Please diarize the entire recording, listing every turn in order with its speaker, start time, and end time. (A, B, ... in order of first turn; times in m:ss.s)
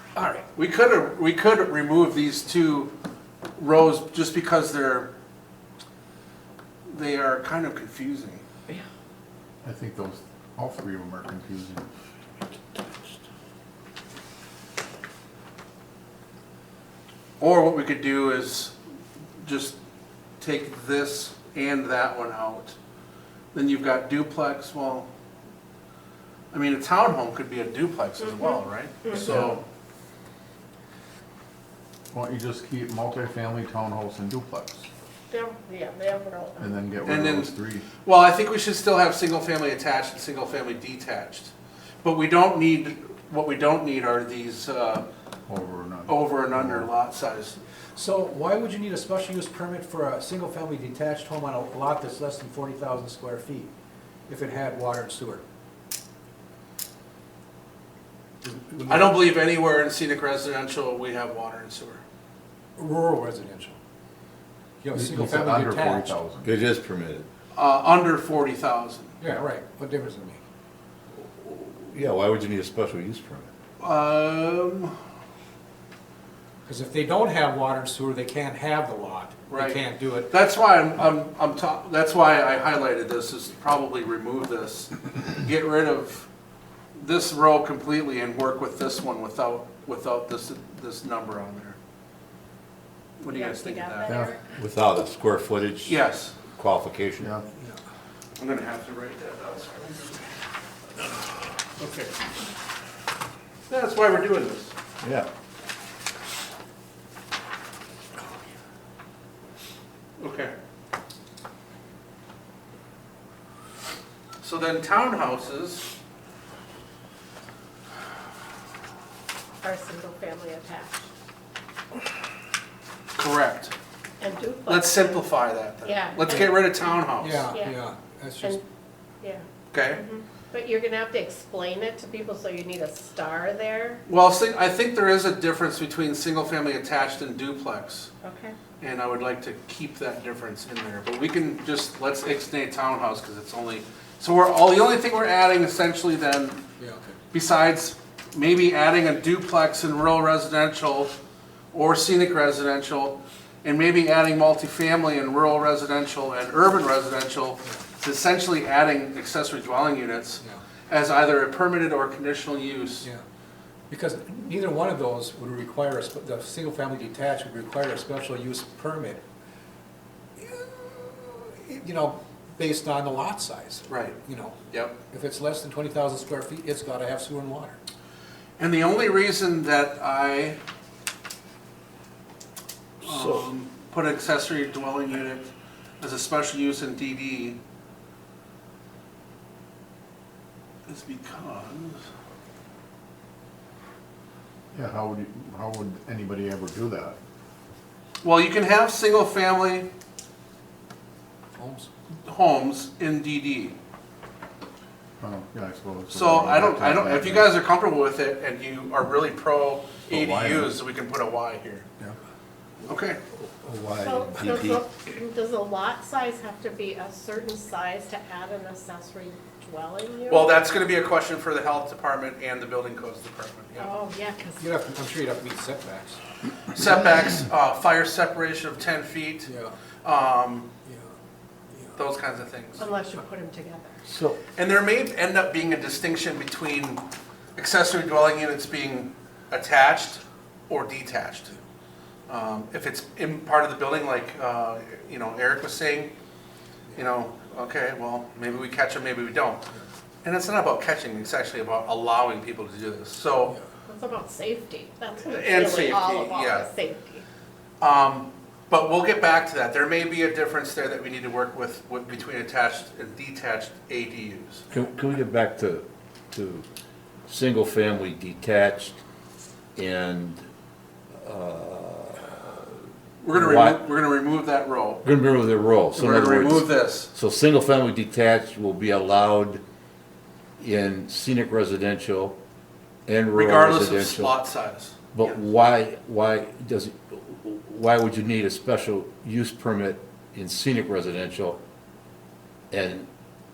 0:00.1-0:02.9 A
0:03.6-0:05.1 A
0:06.9-0:08.4 A
0:09.6-0:11.8 B
0:17.4-0:18.7 A
0:19.4-0:19.8 A
0:20.4-0:22.8 A
0:23.5-0:25.1 A
0:26.5-0:29.6 A
0:28.2-0:29.2 C
0:29.1-0:29.6 B
0:32.1-0:34.9 B
0:35.3-0:36.8 C
0:36.6-0:37.9 B
0:37.0-0:37.5 A
0:38.0-0:45.0 A
0:45.5-0:46.9 B
0:46.1-0:47.6 A
0:48.0-0:53.7 D
0:54.3-0:55.4 D
0:58.4-0:59.2 D
0:58.9-1:02.0 A
1:02.8-1:03.8 D
1:04.8-1:06.2 D
1:04.9-1:06.5 B
1:06.4-1:07.3 E
1:07.5-1:09.1 A
1:09.2-1:10.4 D
1:11.9-1:13.5 E
1:13.8-1:14.9 A
1:16.7-1:20.3 D
1:19.5-1:26.3 A
1:27.0-1:31.8 A
1:33.2-1:34.2 A
1:33.3-1:34.4 C
1:34.1-1:34.4 B
1:34.6-1:37.3 E
1:35.8-1:36.3 A
1:38.4-1:40.3 A
1:41.8-1:42.1 A
1:43.7-1:44.7 A
1:45.0-1:45.3 E
1:50.2-1:50.5 A
1:54.4-1:55.9 A
1:59.6-2:01.1 C
2:03.2-2:03.7 A
2:04.2-2:05.2 C
2:04.7-2:07.5 A
2:05.8-2:06.7 C
2:07.1-2:08.6 D
2:07.5-2:07.8 C
2:09.2-2:14.0 C
2:09.7-2:10.0 A
2:14.1-2:18.1 A
2:18.2-2:18.6 C
2:18.8-2:26.6 A
2:26.8-2:27.2 D
2:27.3-2:31.2 A
2:31.7-2:43.1 A
2:43.9-2:49.2 D
2:50.4-2:57.8 D
2:53.9-2:54.2 A
2:54.7-2:55.0 A
2:58.6-3:00.6 A
3:03.0-3:03.4 E
3:03.0-3:07.6 A
3:10.9-3:12.0 A
3:14.7-3:17.2 B
3:18.2-3:19.9 A
3:21.6-3:21.9 D
3:22.2-3:23.8 A
3:25.2-3:27.6 B
3:26.1-3:31.8 A
3:30.1-3:30.7 B
3:32.8-3:33.2 A
3:33.3-3:34.8 E
3:34.0-3:40.6 C
3:40.3-3:43.9 A
3:43.8-3:44.6 C
3:44.6-3:46.2 D
3:46.7-3:49.5 A
3:49.4-3:49.7 D
3:50.0-3:50.7 A
3:52.0-3:52.9 A
3:52.8-3:54.0 C
3:54.1-3:54.4 E
3:54.6-3:57.0 A
3:57.6-4:01.5 A
4:02.3-4:06.1 A
4:07.0-4:09.6 A
4:10.2-4:13.6 A
4:13.9-4:17.2 C
4:15.2-4:16.7 A
4:17.8-4:24.6 A
4:24.7-4:26.7 E
4:27.3-4:29.0 E
4:29.8-4:30.4 E
4:31.2-4:33.9 E
4:33.2-4:35.0 A
4:35.0-4:39.6 E
4:35.9-4:37.1 A
4:40.6-4:42.4 E
4:43.1-4:44.4 E
4:43.3-4:45.3 A
4:45.1-4:51.6 E
4:52.7-4:53.1 E